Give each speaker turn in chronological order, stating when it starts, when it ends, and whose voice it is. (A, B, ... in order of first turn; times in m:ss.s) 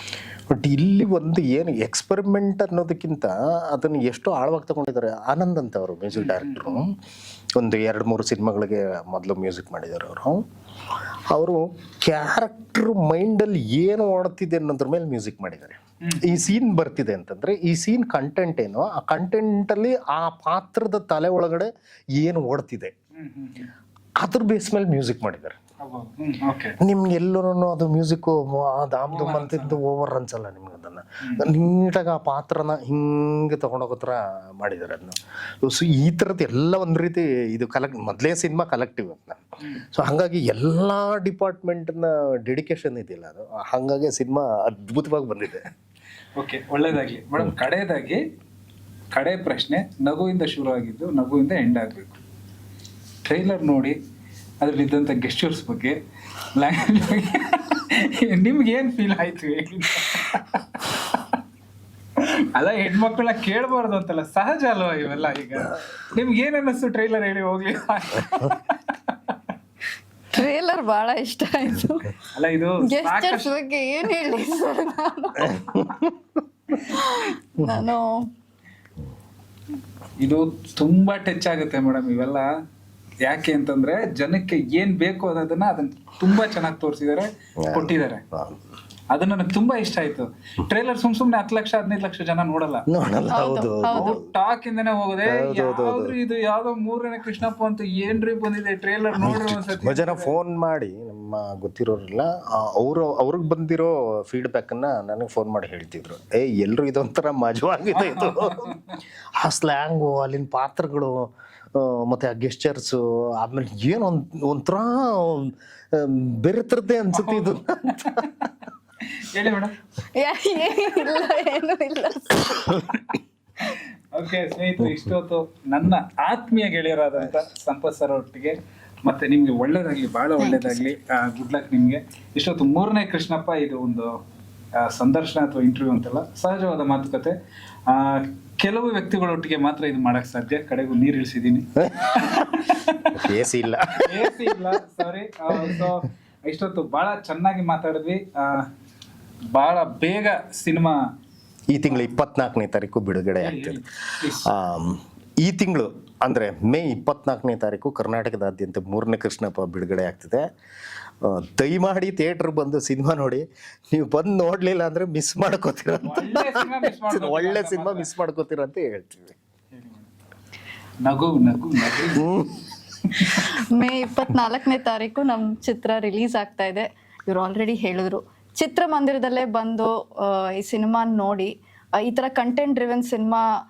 0:00.5-0:07.0 A
0:06.2-0:06.9 B
0:07.6-0:10.4 A
0:11.3-0:22.9 A
0:16.0-0:16.4 B
0:23.1-0:23.7 B
0:24.2-0:25.6 A
0:25.8-0:26.8 B
0:26.8-0:45.7 A
0:29.1-0:29.8 B
0:31.2-0:31.5 B
0:46.4-0:48.2 B
0:49.1-0:52.2 B
0:53.2-0:54.0 B
0:54.6-0:56.0 B
0:56.5-1:01.4 B
1:02.2-1:09.4 B
1:10.3-1:12.1 C
1:12.4-1:13.5 B
1:12.8-1:15.8 C
1:15.4-1:16.1 A
1:16.9-1:18.3 C
1:17.6-1:17.8 A
1:20.2-1:22.5 B
1:23.2-1:28.2 B
1:27.6-1:28.6 A
1:29.1-1:32.9 B
1:32.9-1:34.2 A
1:33.3-1:34.2 C
1:33.9-1:40.3 B
1:35.2-1:36.2 A
1:39.2-1:48.8 A
1:47.9-1:49.0 B
1:49.4-1:58.3 A
1:57.1-1:59.8 B
2:00.1-2:02.9 C
2:03.1-2:14.2 B
2:14.8-2:17.4 B
2:17.9-2:23.3 B
2:21.8-2:22.3 A
2:23.1-2:24.5 A
2:24.0-2:28.7 B
2:25.5-2:25.9 A
2:29.5-2:31.1 B
2:31.7-2:33.8 A
2:33.4-2:34.5 B
2:34.4-2:40.5 A
2:41.2-2:49.4 A
2:46.0-2:48.1 B
2:49.7-2:50.1 B
2:51.0-2:53.5 B
2:52.2-2:52.6 A
2:53.3-3:03.5 C